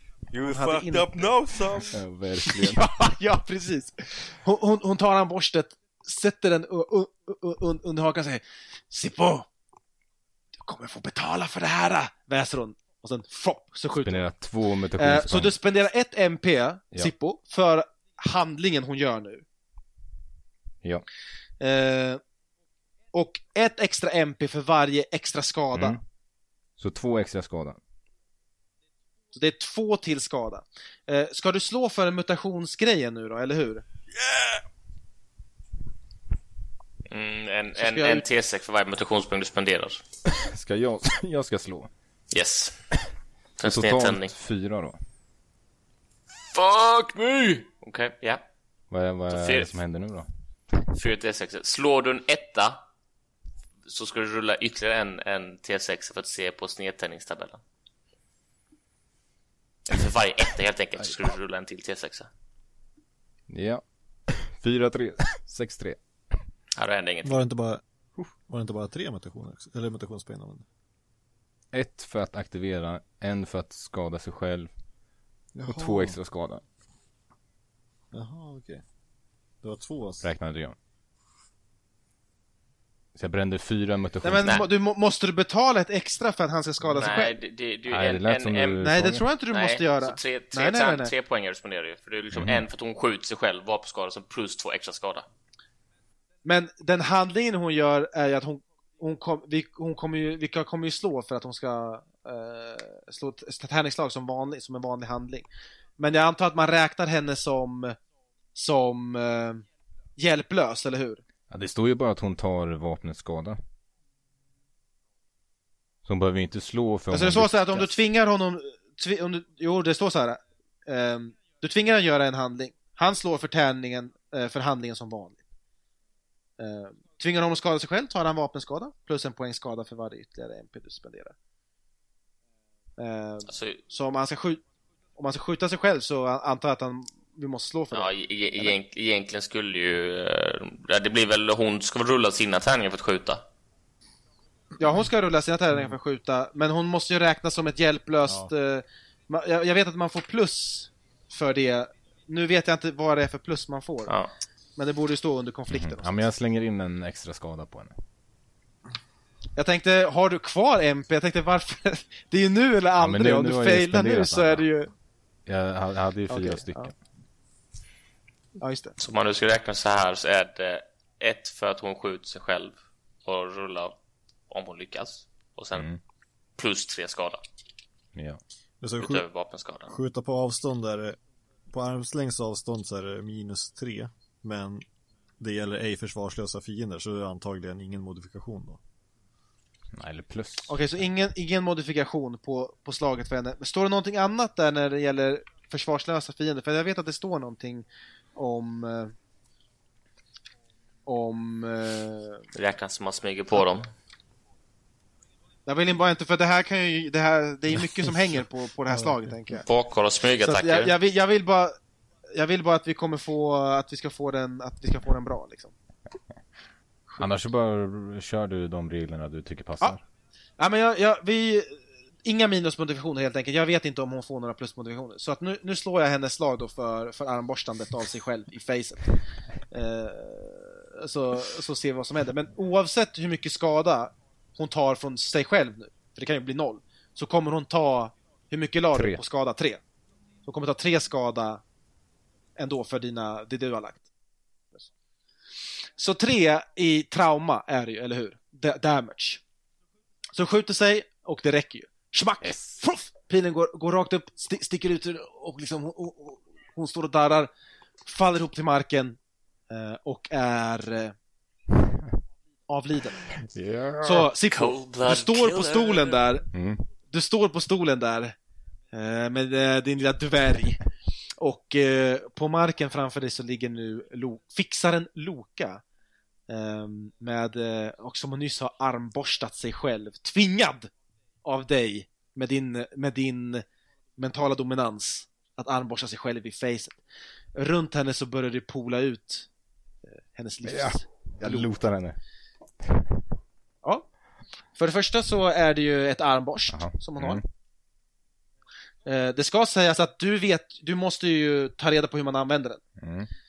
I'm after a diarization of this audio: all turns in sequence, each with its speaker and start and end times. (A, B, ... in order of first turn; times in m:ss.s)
0:00.3-0:02.0 A
0:00.4-0:01.3 B
0:01.9-0:02.8 C
0:02.4-0:09.5 B
0:10.6-0:14.2 B
0:14.0-0:15.5 C
0:15.0-0:19.4 B
0:21.6-0:22.2 B
0:23.1-0:26.0 B
0:25.7-0:26.0 C
0:26.8-0:27.8 C
0:29.3-0:33.8 B
0:34.2-0:34.6 A
0:37.1-0:40.0 D
0:37.8-0:38.2 B
0:40.3-0:41.9 C
0:42.3-0:42.8 D
0:43.6-0:44.4 D
0:43.6-0:45.0 C
0:46.5-0:48.4 D
0:48.9-0:50.9 C
0:49.3-0:49.7 D
0:50.9-0:52.8 D
0:53.9-0:57.6 D
0:59.9-1:02.3 D
1:03.5-1:06.0 C
1:06.8-1:07.4 D
1:07.2-1:07.8 E
1:08.5-1:10.7 E
1:11.7-1:14.7 C
1:15.6-1:16.2 E
1:15.7-1:16.6 C
1:18.1-1:18.8 E
1:19.6-1:20.3 E
1:20.2-1:20.8 C
1:23.2-1:24.6 C
1:24.2-1:27.4 B
1:26.9-1:28.8 D
1:27.9-1:29.2 C
1:28.8-1:31.1 B
1:29.5-1:35.3 D
1:32.3-1:32.6 C
1:36.4-1:45.5 B
1:46.0-1:48.0 B
1:48.6-1:49.6 B
1:50.2-1:51.2 B
1:51.5-1:53.6 C
1:56.1-1:57.9 C
1:57.1-2:05.4 B
2:06.6-2:11.4 B
2:13.0-2:14.6 B
2:13.5-2:13.8 D
2:15.2-2:18.8 B
2:17.9-2:23.4 D
2:24.8-2:34.1 B
2:34.1-2:34.3 D
2:34.8-2:36.3 B
2:35.7-2:38.0 C
2:39.6-2:44.9 B
2:43.0-2:44.7 C
2:45.5-2:46.9 C
2:46.3-2:46.9 B
2:48.6-2:49.0 B
2:49.0-2:54.0 D
2:54.5-2:55.9 D
2:55.8-2:56.0 C
2:56.6-2:57.4 D
2:58.8-2:59.2 E
2:59.0-2:59.9 D
2:59.9-3:01.2 E
3:01.7-3:04.9 E
3:05.4-3:08.8 E
3:09.9-3:10.7 C
3:10.7-3:19.1 B
3:21.1-3:22.5 B
3:22.5-3:23.9 D
3:25.7-3:29.6 B
3:29.6-3:30.9 D
3:30.4-3:31.8 B
3:32.3-3:35.7 B
3:37.2-3:40.0 C
3:40.6-3:49.1 B
3:49.7-3:59.8 B
3:58.9-3:59.2 C
4:00.4-4:01.6 B
4:02.6-4:04.1 B
4:06.0-4:09.4 B
4:10.3-4:17.5 B
4:12.4-4:12.7 C
4:18.0-4:19.2 B
4:19.7-4:21.2 B
4:22.7-4:23.3 B
4:23.4-4:24.3 C
4:24.0-4:26.5 B
4:24.4-4:26.3 D
4:26.5-4:26.8 C
4:27.1-4:28.4 B
4:28.9-4:30.8 B
4:31.4-4:35.8 B
4:36.5-4:40.9 B
4:41.4-4:43.6 B
4:44.2-4:47.0 B
4:47.6-4:49.5 B
4:50.3-4:51.7 B
4:50.6-4:52.2 C
4:52.8-4:53.1 C
4:53.8-4:54.1 B
4:54.8-4:57.4 B
4:56.7-4:57.4 C
4:59.1-5:02.8 B
5:03.0-5:03.3 C